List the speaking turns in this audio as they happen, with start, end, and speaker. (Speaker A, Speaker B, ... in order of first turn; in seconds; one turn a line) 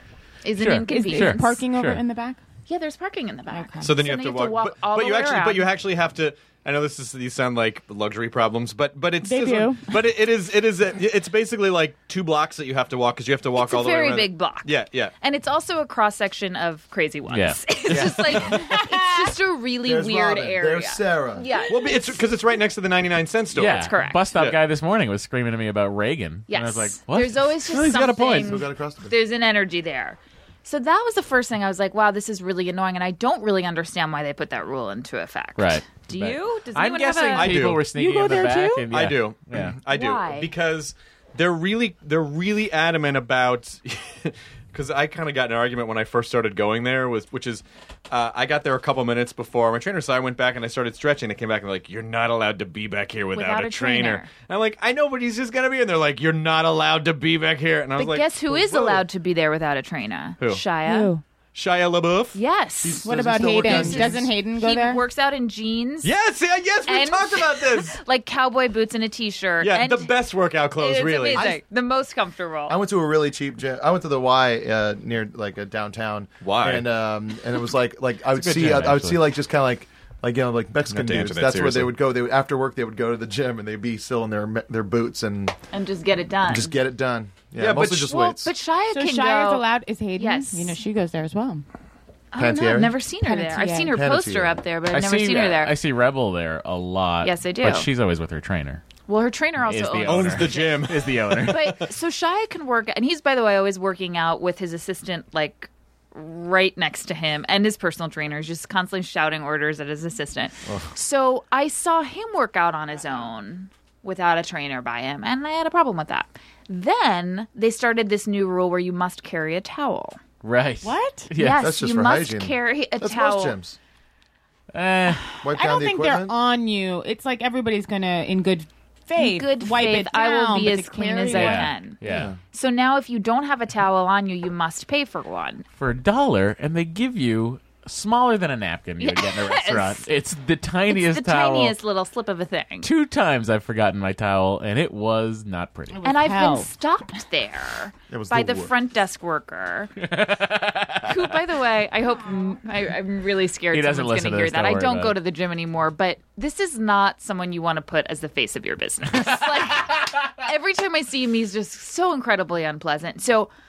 Speaker A: 0.4-1.6
Speaker B: 0.6-2.0
Speaker C: 0.9-2.4
Speaker A: 2.7-5.7
Speaker C: 3.5-4.0
Speaker D: 3.8-15.1
Speaker C: 9.2-9.8
Speaker A: 13.6-22.2
Speaker B: 17.3-18.2
Speaker D: 17.9-18.4
Speaker C: 18.4-19.3
Speaker E: 19.8-21.5
Speaker D: 21.7-24.6
Speaker B: 23.5-27.5
Speaker A: 23.7-24.3
Speaker A: 26.5-37.7
Speaker D: 27.6-28.6
Speaker E: 28.4-29.1
Speaker B: 35.6-39.8
Speaker D: 37.3-37.8
Speaker C: 37.9-38.9
Speaker D: 38.9-59.0
Speaker A: 39.9-40.5
Speaker A: 53.3-54.3
Speaker A: 58.0-61.1
Speaker C: 60.8-61.2
Speaker D: 61.5-62.4
Speaker A: 62.3-66.1
Speaker E: 62.8-64.3
Speaker C: 63.0-65.0
Speaker D: 66.0-68.0
Speaker A: 66.8-70.1
Speaker D: 69.6-71.5
Speaker A: 70.8-72.8
Speaker E: 71.3-71.6
Speaker E: 72.7-85.5
Speaker D: 76.4-76.9
Speaker B: 78.3-79.2
Speaker D: 80.9-81.9
Speaker A: 85.7-86.8
Speaker E: 86.5-88.5
Speaker D: 87.6-88.1
Speaker A: 88.0-89.7
Speaker C: 88.9-91.6
Speaker A: 90.2-90.8
Speaker A: 92.3-95.8
Speaker E: 92.3-93.0
Speaker C: 93.2-93.9
Speaker E: 93.9-94.6
Speaker B: 94.9-98.8
Speaker A: 97.2-97.9
Speaker A: 99.1-120.2
Speaker B: 99.6-101.8
Speaker D: 100.0-101.5
Speaker B: 120.4-121.8
Speaker C: 120.8-121.3
Speaker A: 121.4-123.6
Speaker E: 121.6-123.8
Speaker B: 124.7-125.3
Speaker E: 125.4-126.3
Speaker C: 125.5-131.7
Speaker A: 129.2-135.7
Speaker B: 131.3-132.3
Speaker E: 132.0-132.4
Speaker B: 135.8-141.8
Speaker A: 139.0-140.1
Speaker A: 140.9-142.9
Speaker B: 142.8-146.0
Speaker C: 145.9-146.7
Speaker A: 146.0-149.9
Speaker E: 148.1-148.7
Speaker B: 150.0-151.3
Speaker A: 151.0-163.5
Speaker B: 153.7-155.2